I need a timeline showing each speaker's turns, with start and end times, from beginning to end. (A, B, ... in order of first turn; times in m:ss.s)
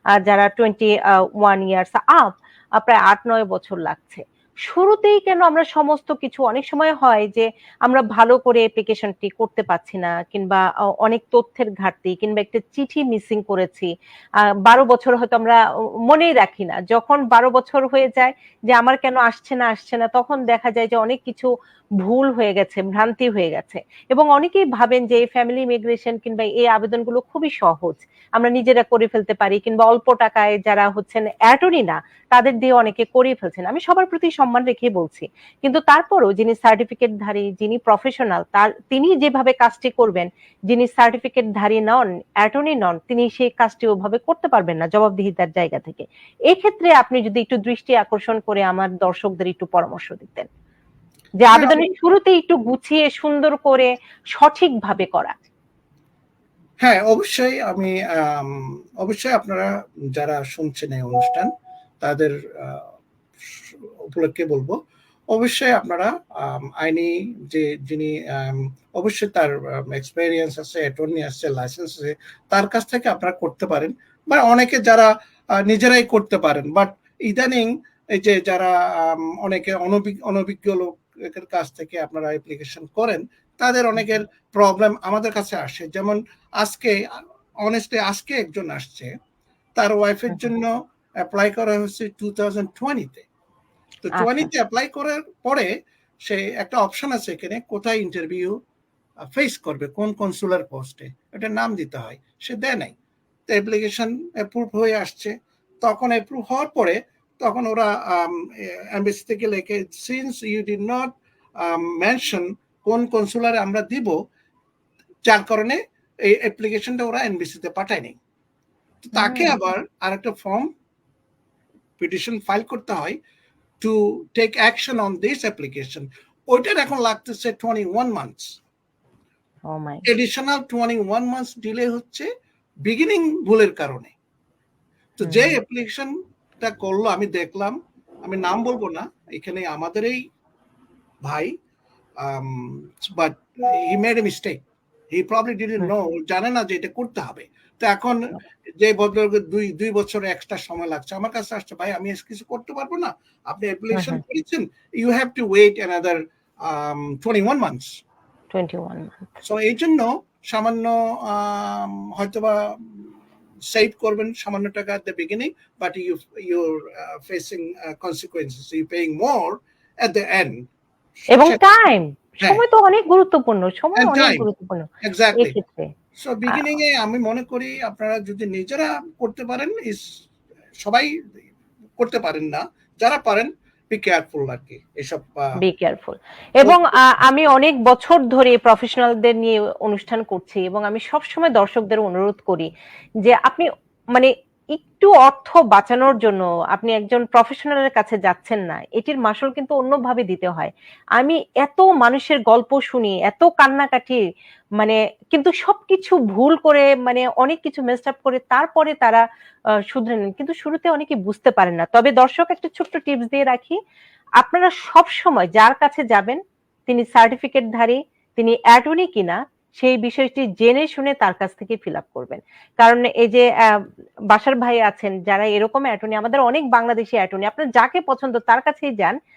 0:00.2-0:13.9 A
0:14.7-0:21.5 A
0:22.0-0:50.5 A
0:51.4-0:55.4 A
0:51.5-0:51.9 B
0:56.8-1:01.5 B
1:02.0-1:02.9 B
1:03.5-1:04.8 B
1:05.3-1:27.0 B
1:27.6-1:29.1 B
1:29.8-1:33.3 B
1:34.0-1:35.7 B
1:34.2-1:34.5 A
1:36.3-1:38.6 B
1:39.3-1:42.9 B
1:43.5-1:45.3 B
1:45.8-1:51.1 B
1:51.6-1:54.2 B
1:55.3-1:58.2 B
1:59.1-2:00.7 B
1:59.2-1:59.6 A
2:02.0-2:03.2 B
2:03.8-2:08.5 B
2:09.7-2:10.0 A
2:10.1-2:12.3 B
2:12.9-2:14.1 B
2:15.2-2:20.2 B
2:15.2-2:15.6 A
2:21.3-2:21.5 B
2:22.2-2:24.6 B
2:25.1-2:38.0 B
2:33.9-2:34.2 A
2:38.5-2:39.2 A
2:39.4-2:43.1 B
2:43.7-2:50.6 B
2:51.3-2:51.6 B
2:51.3-2:55.9 A
2:54.0-2:54.5 B
2:55.0-2:55.6 B
2:56.2-3:00.0 B
3:00.8-3:01.1 B
3:02.0-3:05.5 B
3:05.6-3:12.7 A
3:13.2-3:24.2 A
3:24.8-3:29.2 A
3:29.9-3:33.8 A
3:34.4-3:49.2 A